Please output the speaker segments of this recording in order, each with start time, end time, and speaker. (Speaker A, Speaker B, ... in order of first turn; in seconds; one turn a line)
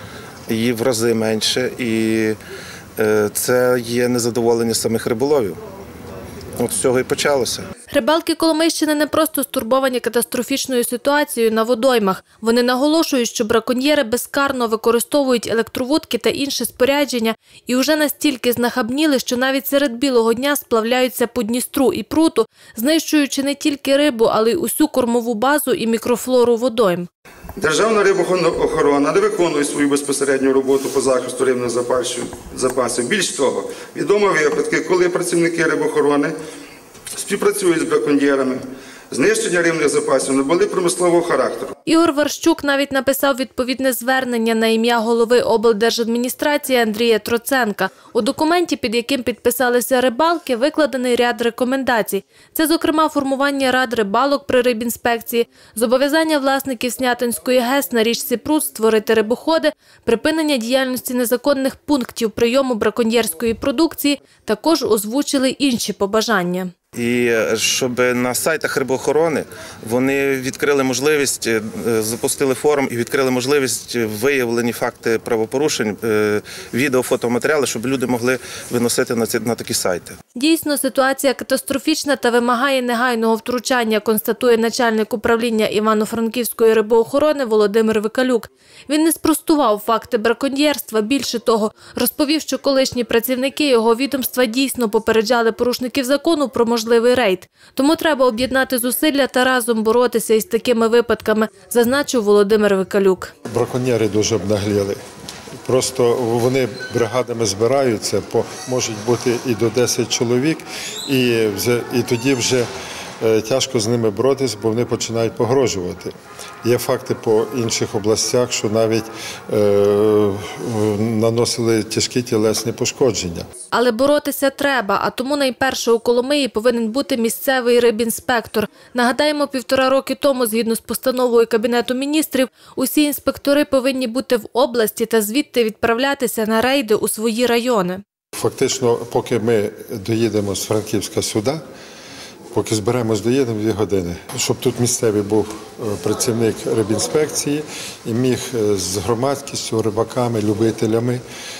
Speaker A: 0.5-2.4
Speaker A: 3.0-5.6
Speaker A: 6.6-7.7
Speaker B: 7.9-27.1
Speaker C: 27.6-36.3
Speaker C: 37.1-38.6
Speaker C: 39.1-41.7
Speaker B: 41.9-66.7
Speaker A: 66.9-80.2
Speaker B: 80.3-103.3
Speaker D: 103.5-105.0
Speaker D: 105.6-112.7
Speaker D: 113.2-116.1
Speaker D: 116.6-123.5
Speaker B: 123.7-138.0
Speaker D: 138.4-141.6
Speaker D: 142.5-151.2